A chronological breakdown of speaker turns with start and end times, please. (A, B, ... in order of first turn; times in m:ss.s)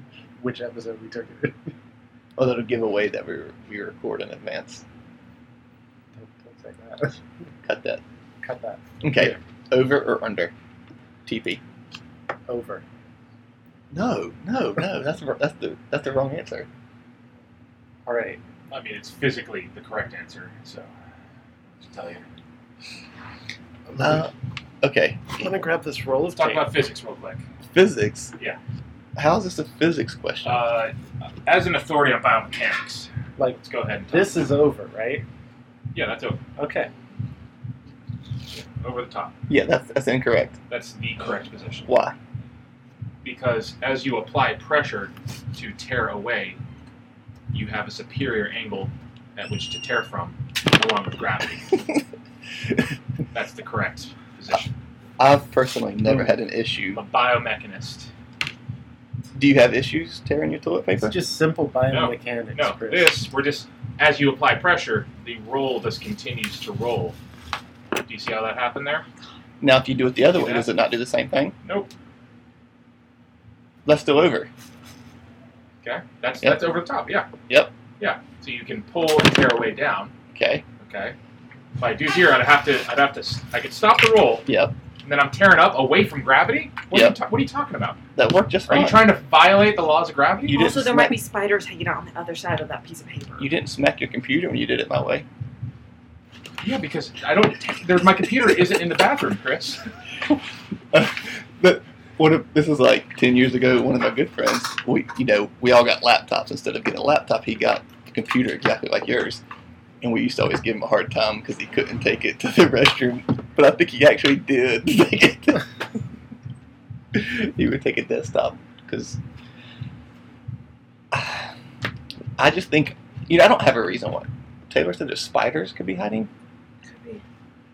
0:00.4-0:01.7 A
0:02.4-0:04.8 B
0:06.1-0:07.2 A
0:07.6-0:08.0 B
0:08.4-0:09.4 A
0:09.0-0:10.5 B
0:11.2-0:11.6 B
0:12.5-0:12.8 A
0:13.9-0:16.7 B
0:18.0-0:18.4 A
0:18.7-0:20.9 C
0:21.8-0:22.2 C
0:23.9-0:24.3 A
0:24.0-0:25.4 B
0:25.4-0:26.7 A
0:26.4-0:27.4 C
0:27.7-0:28.3 B
0:29.2-0:30.6 B
0:30.4-0:34.4 C
0:33.4-0:35.2 A
0:35.9-0:36.4 C
0:36.6-0:36.9 A
0:38.5-0:39.3 C
0:39.5-0:40.6 B
0:40.7-0:41.9 C
0:41.9-0:42.1 B
0:43.2-0:46.6 C
0:47.5-0:51.8 C
0:53.3-0:54.7 C
0:55.2-0:57.0 B
0:56.0-0:56.3 A
0:56.9-0:58.1 C
0:59.3-1:01.2 B
1:01.0-1:03.2 A
1:01.9-1:07.2 C
1:08.0-1:09.0 C
1:09.6-1:11.5 B
1:10.3-1:10.7 C
1:11.6-1:11.9 C
1:13.8-1:14.5 B
1:15.8-1:17.3 C
1:16.4-1:16.7 B
1:17.5-1:17.7 B
1:18.0-1:20.1 C
1:20.3-1:20.6 B
1:20.8-1:21.2 C
1:21.8-1:24.5 C
1:24.5-1:24.7 B
1:25.0-1:28.0 C
1:26.9-1:27.2 B
1:28.1-1:29.1 B
1:28.7-1:30.6 C
1:30.4-1:31.2 B
1:30.5-1:33.5 D
1:33.4-1:35.2 B
1:36.6-1:39.8 C
1:40.9-1:49.4 B
1:50.0-1:55.7 B
1:57.1-1:59.2 B
2:01.1-2:01.5 B
2:02.4-2:06.3 B
2:06.9-2:07.2 D